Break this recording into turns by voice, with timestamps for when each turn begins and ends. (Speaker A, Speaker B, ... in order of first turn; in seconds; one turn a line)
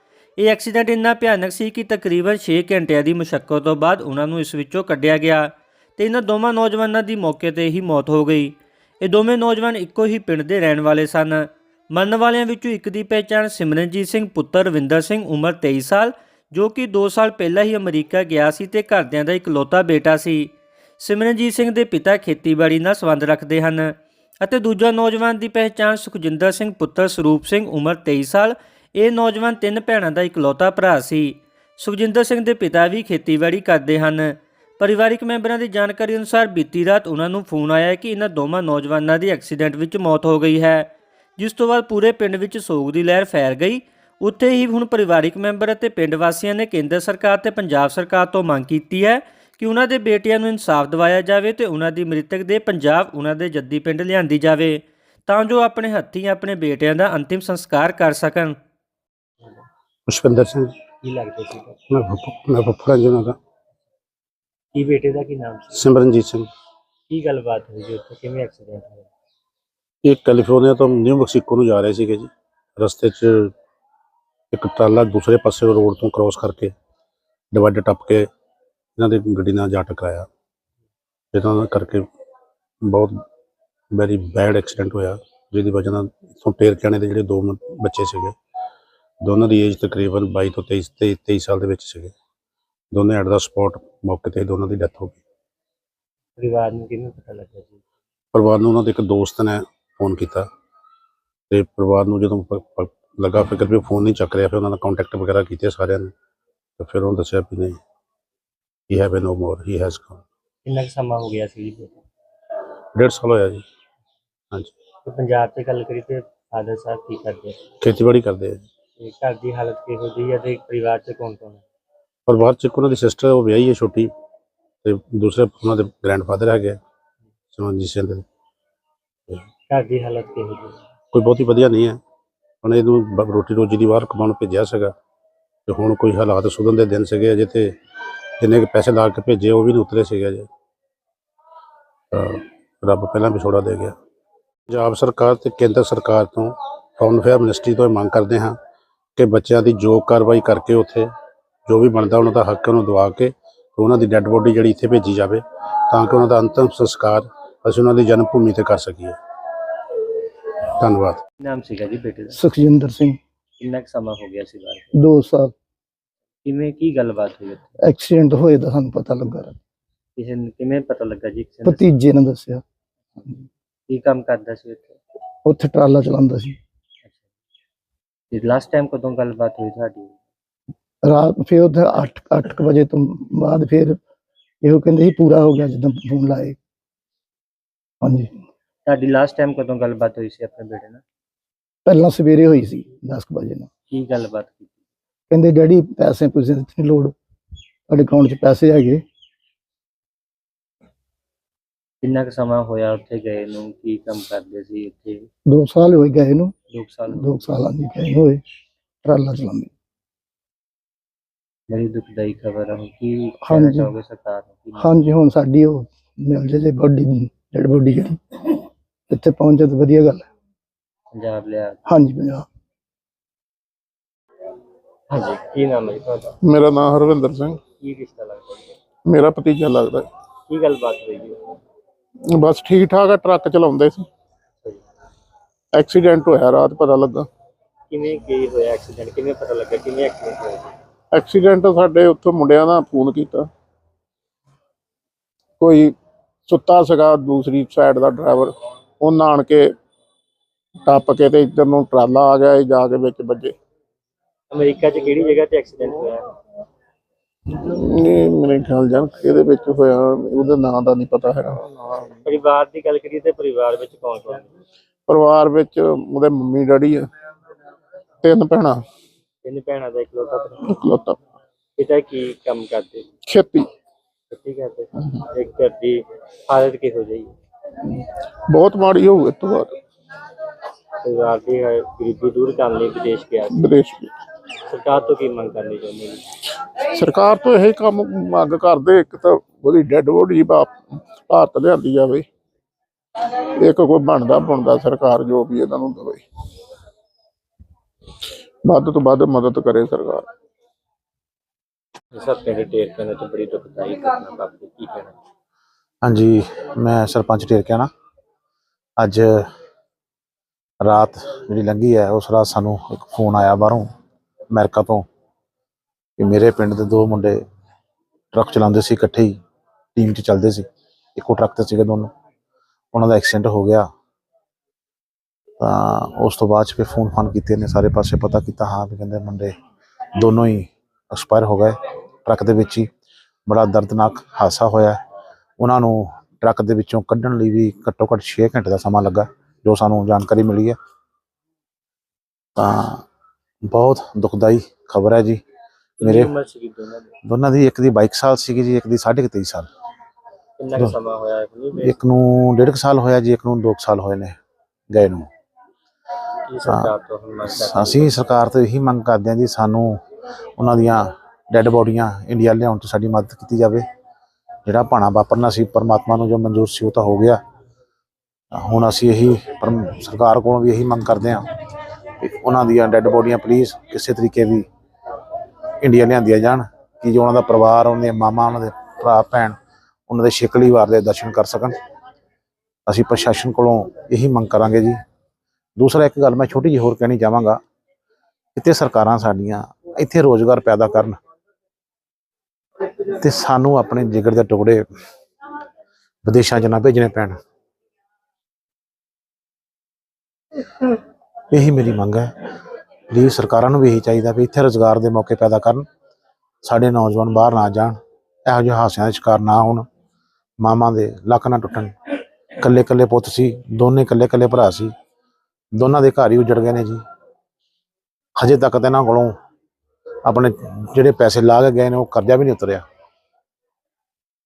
Speaker A: 0.4-58.5
Speaker B: 60.1-60.7
Speaker C: 61.0-61.8
Speaker B: 61.9-63.4
Speaker C: 64.8-65.9
Speaker B: 65.7-66.5
Speaker C: 67.1-69.1
Speaker B: 70.0-73.5
Speaker B: 74.5-76.7
Speaker B: 77.5-78.3
Speaker B: 79.0-80.3
Speaker B: 81.3-82.0
Speaker B: 82.9-83.1
Speaker B: 83.9-88.3
Speaker B: 89.2-92.1
Speaker B: 92.9-95.2
Speaker C: 96.4-97.8
Speaker B: 98.3-100.5
Speaker B: 101.5-106.1
Speaker B: 106.8-107.8
Speaker B: 108.9-110.2
Speaker C: 110.6-112.0
Speaker B: 113.0-113.6
Speaker C: 115.0-117.6
Speaker B: 117.8-118.7
Speaker C: 119.0-121.6
Speaker B: 122.3-124.1
Speaker B: 124.8-126.8
Speaker B: 127.5-128.2
Speaker C: 129.7-130.8
Speaker B: 131.1-132.0
Speaker B: 132.6-134.9
Speaker B: 135.7-137.7
Speaker B: 138.4-140.5
Speaker B: 142.1-143.9
Speaker B: 144.7-148.6
Speaker B: 149.2-151.1
Speaker B: 151.7-159.2
Speaker B: 160.8-161.2
Speaker C: 161.4-162.4
Speaker D: 162.3-163.2
Speaker C: 163.6-164.9
Speaker D: 164.9-165.5
Speaker C: 166.4-167.7
Speaker D: 167.8-169.6
Speaker C: 170.2-171.9
Speaker D: 171.6-172.6
Speaker C: 173.9-174.9
Speaker D: 175.4-176.6
Speaker C: 178.3-180.2
Speaker D: 181.0-184.0
Speaker D: 184.6-186.6
Speaker D: 188.0-188.3
Speaker C: 188.9-191.0
Speaker D: 191.9-193.7
Speaker C: 193.9-194.7
Speaker D: 195.3-197.1
Speaker D: 197.9-199.0
Speaker C: 202.0-205.3
Speaker D: 205.5-206.5
Speaker C: 206.7-207.3
Speaker D: 207.1-208.4
Speaker D: 209.0-209.7
Speaker C: 211.7-215.0
Speaker D: 213.4-213.9
Speaker D: 214.8-220.2
Speaker C: 221.1-221.8
Speaker D: 221.9-222.4
Speaker C: 225.1-226.3
Speaker E: 226.4-227.6
Speaker C: 227.7-228.7
Speaker E: 229.1-230.1
Speaker C: 230.5-231.4
Speaker E: 232.3-234.1
Speaker E: 235.7-237.3
Speaker C: 237.9-240.7
Speaker E: 241.1-243.5
Speaker E: 245.6-245.9
Speaker E: 246.5-249.7
Speaker E: 250.8-253.5
Speaker C: 254.5-256.3
Speaker E: 257.5-261.6
Speaker C: 262.2-264.5
Speaker E: 265.1-267.1
Speaker E: 268.2-268.8
Speaker C: 269.4-270.7
Speaker E: 270.7-271.2
Speaker C: 271.8-273.1
Speaker E: 273.2-273.7
Speaker C: 274.3-277.3
Speaker E: 277.9-279.8
Speaker C: 281.0-283.6
Speaker E: 283.5-284.1
Speaker C: 284.7-286.2
Speaker E: 286.9-292.2
Speaker E: 293.6-296.2
Speaker E: 298.6-300.3
Speaker C: 302.1-305.1
Speaker F: 306.0-307.9
Speaker F: 309.0-309.5
Speaker F: 310.8-313.9
Speaker F: 314.5-315.1
Speaker F: 316.2-317.4
Speaker F: 318.3-319.4
Speaker F: 319.9-322.1
Speaker F: 322.9-323.9
Speaker F: 325.6-329.5
Speaker F: 330.2-332.9
Speaker F: 333.5-335.0
Speaker F: 335.6-340.8
Speaker F: 342.6-343.0
Speaker F: 343.7-345.4
Speaker C: 346.0-347.1
Speaker F: 346.0-346.3
Speaker F: 347.2-349.7
Speaker C: 350.6-351.9
Speaker F: 351.8-354.4
Speaker F: 354.9-355.3
Speaker C: 356.5-358.4
Speaker F: 357.6-360.0
Speaker F: 360.6-363.8
Speaker F: 364.7-367.4
Speaker F: 368.6-371.4
Speaker F: 372.2-374.7
Speaker F: 375.8-379.6
Speaker F: 380.1-381.7
Speaker F: 382.9-384.9
Speaker F: 385.8-387.6
Speaker F: 388.6-391.2
Speaker F: 393.1-394.8
Speaker F: 396.2-397.4
Speaker F: 401.5-402.3
Speaker F: 403.1-405.9
Speaker F: 406.6-409.9
Speaker F: 410.6-411.9
Speaker F: 412.6-414.9
Speaker F: 415.8-417.0
Speaker F: 418.4-419.3
Speaker F: 420.2-422.8